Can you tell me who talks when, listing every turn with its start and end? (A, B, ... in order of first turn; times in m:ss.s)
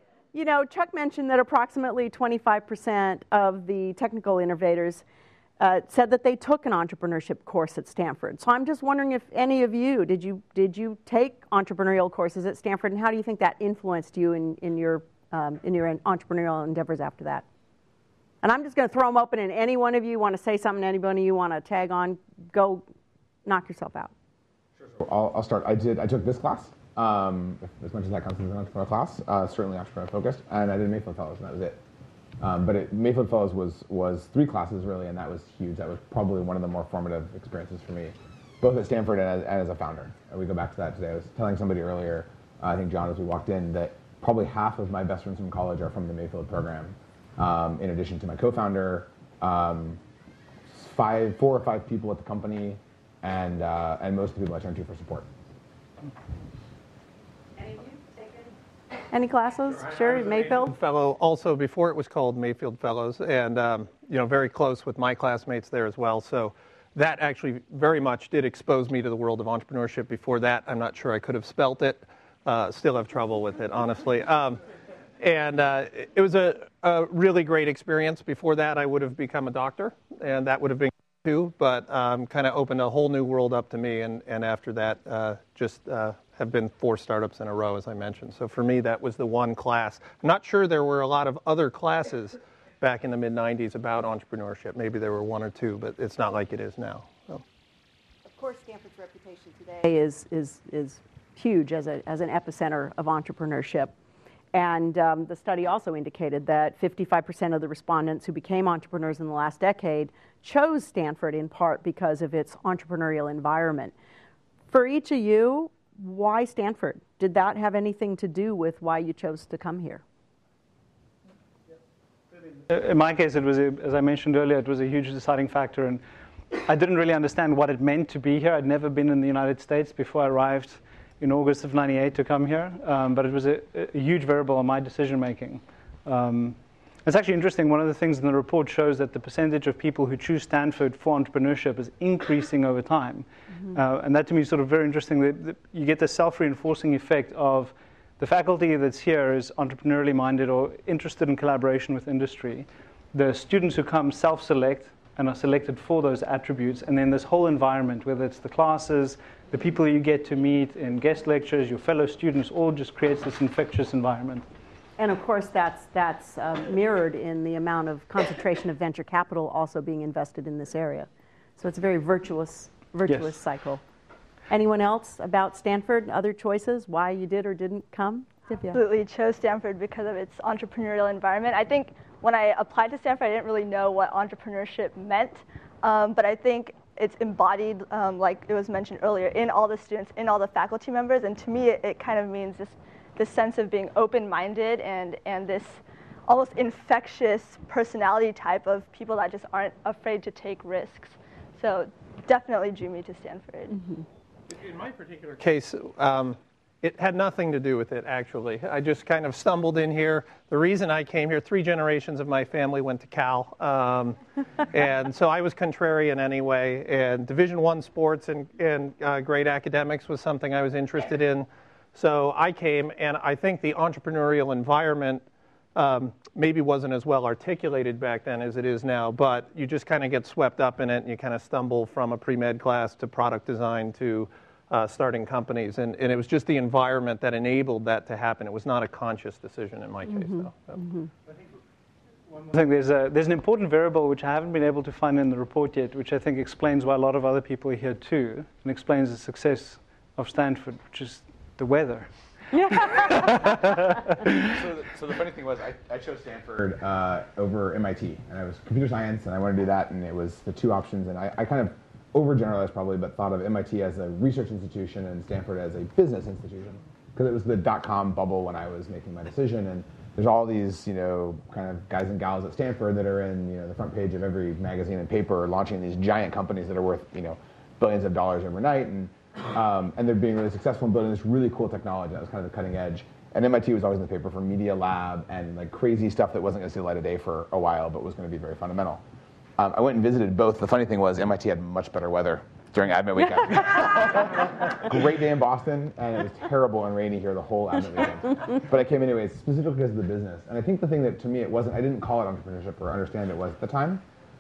0:00.3-0:05.0 A
0:05.6-0:17.4 A
0:18.4-0:22.8 A
0:23.4-0:24.1 A
0:24.8-0:31.8 B
0:32.4-0:50.0 B
0:50.7-0:55.3 B
0:59.1-1:00.7 A
0:59.7-1:14.6 C
1:15.2-1:37.4 C
1:38.3-1:43.9 A
1:44.5-1:53.9 A
1:54.7-2:00.0 A
2:02.7-2:44.4 D
2:45.0-2:53.8 A
2:54.5-2:58.8 A
2:58.7-3:23.8 E
3:24.5-3:34.2 C
3:34.7-4:00.8 C
4:00.2-4:01.1 A
4:02.3-4:12.1 D
4:12.5-4:12.9 A
4:12.7-4:14.3 D
4:14.4-4:49.0 B
4:49.6-5:04.0 B